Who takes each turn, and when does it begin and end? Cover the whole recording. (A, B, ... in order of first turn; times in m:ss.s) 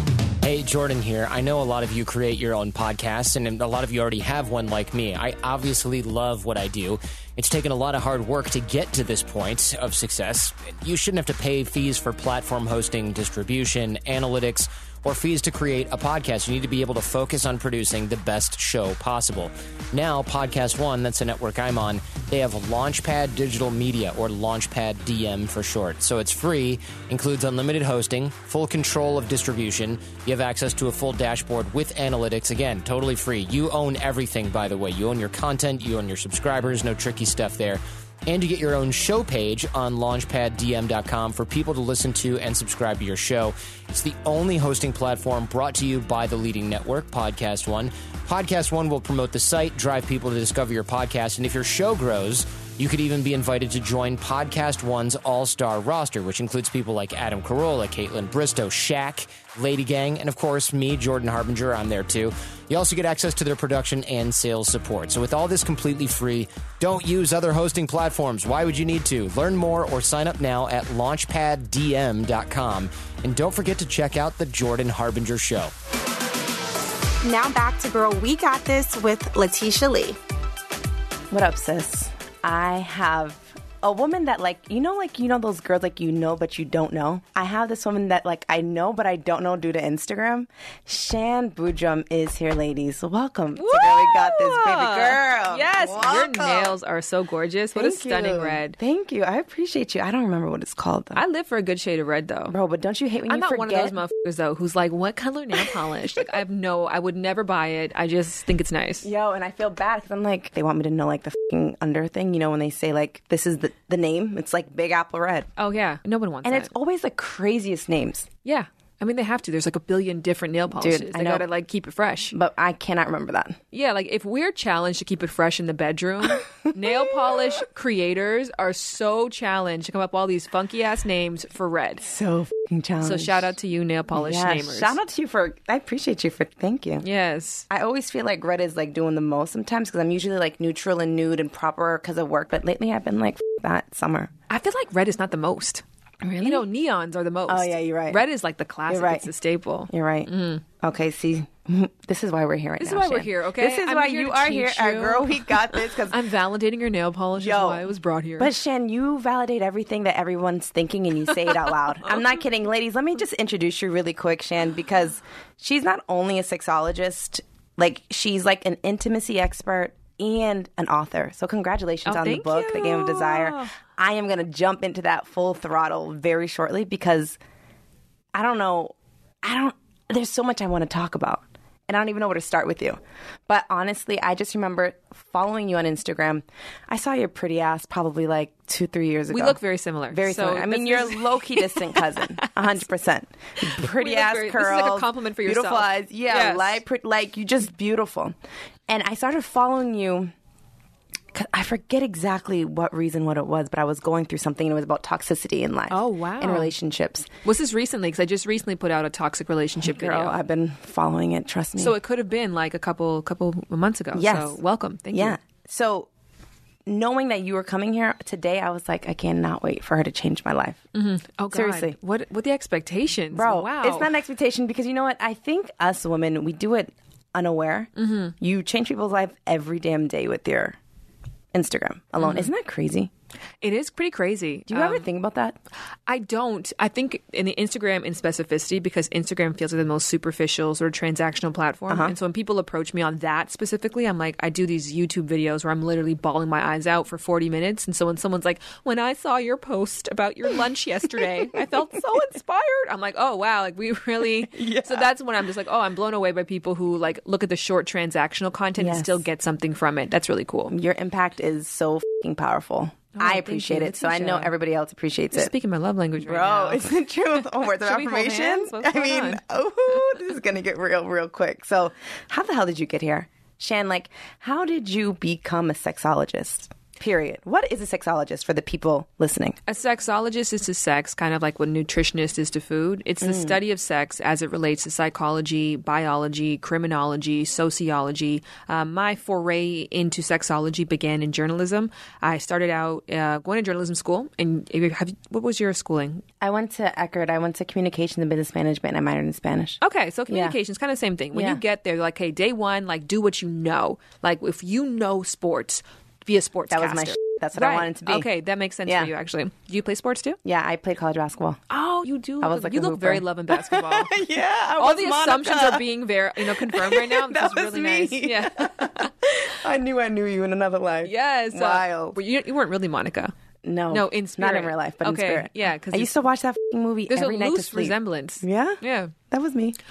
0:00.4-1:15.7 A
1:17.2-1:20.2 B
1:21.3-1:36.7 C
1:33.5-1:38.8 D
1:37.7-1:41.2 C
1:41.1-1:42.5 D
1:42.5-1:44.0 C
1:43.3-1:49.1 D
1:49.0-1:55.5 C
1:55.6-1:56.7 D
1:56.4-1:58.3 C
1:58.4-2:02.3 D
2:00.8-2:01.4 C
2:02.3-2:03.6 C
2:03.7-2:12.1 D
2:06.3-2:07.4 C
2:12.0-2:13.4 C
2:13.0-2:15.0 D
2:14.1-2:17.0 C
2:17.0-2:17.6 D
2:17.7-2:24.3 C
2:24.5-2:25.8 D
2:26.2-2:26.6 C
2:26.4-2:30.6 D
2:27.5-2:28.2 C
2:28.9-2:29.3 C
2:29.9-2:36.2 C
2:32.8-2:38.5 D
2:37.4-2:37.8 C
2:38.4-2:57.4 C
2:52.0-2:53.7 D
2:58.3-3:09.6 C
3:09.3-3:12.8 D
3:10.1-3:18.3 C
3:13.6-3:16.8 D
3:18.9-3:20.3 C
3:21.3-3:27.3 C
3:25.9-3:26.7 D
3:27.4-3:30.4 D
3:29.8-3:31.9 C
3:31.8-3:35.4 D
3:34.1-3:34.6 C
3:35.1-3:36.1 C
3:36.8-3:40.8 C
3:40.9-3:44.1 D
3:41.5-3:42.0 C
3:43.3-3:50.8 C
3:48.0-3:48.3 D
3:51.5-3:53.1 C
3:52.2-3:52.5 D
3:53.6-3:55.0 D
3:54.7-3:55.6 C
3:56.1-4:20.7 D
4:01.9-4:02.1 C
4:14.5-4:15.1 C
4:18.8-4:19.2 C
4:20.7-4:25.5 C
4:23.1-4:24.5 D
4:25.3-4:26.9 D
4:26.2-4:39.6 C
4:27.7-4:30.2 D
4:39.7-4:56.2 D
4:43.2-4:43.6 C
4:56.4-5:00.6 C
4:59.8-5:10.4 D
5:01.3-5:01.6 C
5:06.7-5:08.2 C
5:10.4-5:11.6 C
5:11.7-5:14.2 D
5:12.4-5:15.8 C
5:14.8-5:19.1 D
5:16.4-5:22.2 C
5:21.0-5:23.3 D
5:23.6-5:29.8 C
5:23.9-5:26.2 D
5:27.1-5:29.1 D